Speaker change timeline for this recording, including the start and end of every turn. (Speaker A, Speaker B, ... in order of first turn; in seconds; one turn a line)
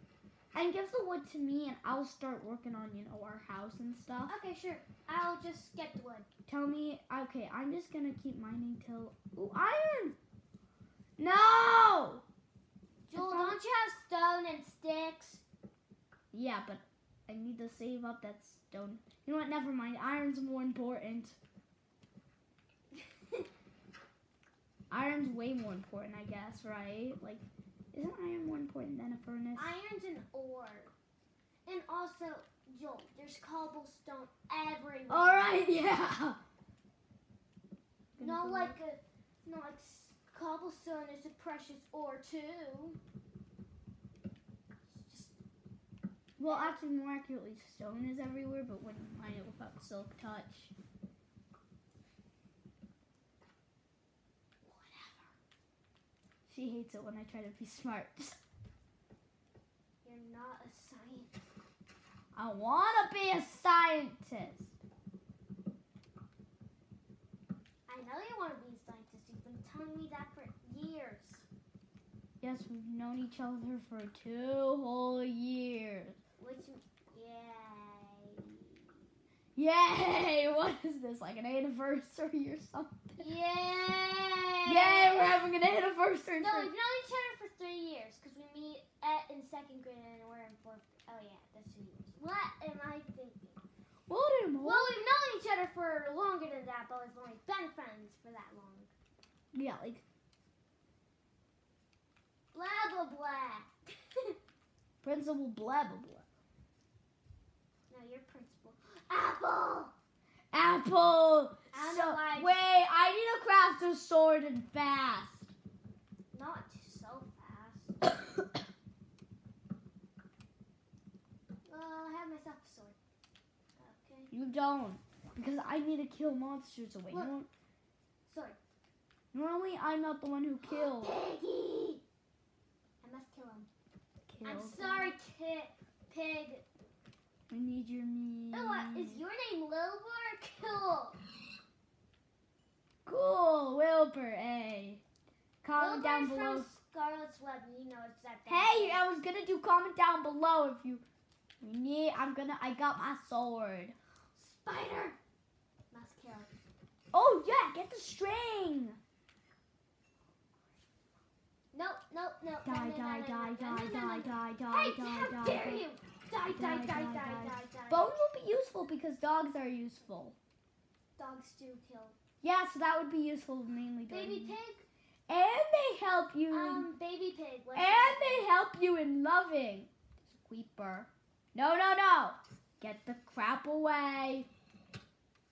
Speaker A: 0.5-4.3
Speaker B: 4.3-6.3
Speaker A: 6.5-10.2
Speaker A: 11.2-12.2
Speaker A: 13.1-13.6
Speaker B: 13.1-15.4
Speaker A: 16.3-21.4
Speaker B: 22.9-23.4
Speaker A: 24.9-29.7
Speaker B: 29.5-30.9
Speaker B: 31.6-35.6
Speaker A: 35.1-36.4
Speaker A: 38.2-38.8
Speaker B: 38.2-43.0
Speaker B: 44.9-45.4
Speaker A: 46.4-50.7
Speaker B: 46.4-46.8
Speaker B: 54.6-55.3
Speaker A: 56.5-58.4
Speaker B: 60.0-61.4
Speaker A: 62.3-64.8
Speaker B: 67.9-71.5
Speaker A: 72.4-76.2
Speaker B: 76.4-79.0
Speaker A: 79.5-83.2
Speaker B: 83.2-85.5
Speaker A: 84.6-86.7
Speaker B: 86.4-93.6
Speaker A: 94.1-95.0
Speaker B: 94.6-98.9
Speaker A: 99.5-100.0
Speaker B: 102.5-104.4
Speaker A: 105.0-106.2
Speaker B: 107.9-109.9
Speaker A: 110.5-115.5
Speaker B: 111.7-112.6
Speaker B: 116.3-118.0
Speaker B: 121.6-123.0
Speaker B: 123.8-124.3
Speaker A: 124.3-127.5
Speaker B: 128.2-128.6
Speaker A: 129.3-131.2
Speaker B: 130.6-132.0
Speaker B: 133.0-133.7
Speaker A: 134.3-135.2
Speaker B: 134.4-136.7
Speaker A: 137.5-139.2
Speaker B: 138.5-141.2
Speaker A: 143.1-145.0
Speaker A: 145.6-146.7
Speaker B: 145.8-149.0
Speaker A: 148.5-151.0
Speaker A: 151.6-153.9
Speaker B: 154.3-155.2
Speaker B: 155.9-156.5
Speaker A: 157.1-159.0
Speaker B: 161.7-168.2
Speaker A: 162.6-165.8
Speaker A: 166.5-170.4
Speaker B: 171.2-172.2
Speaker A: 172.4-174.6
Speaker B: 174.1-174.8
Speaker A: 175.3-176.9
Speaker B: 176.5-178.5
Speaker A: 177.7-184.5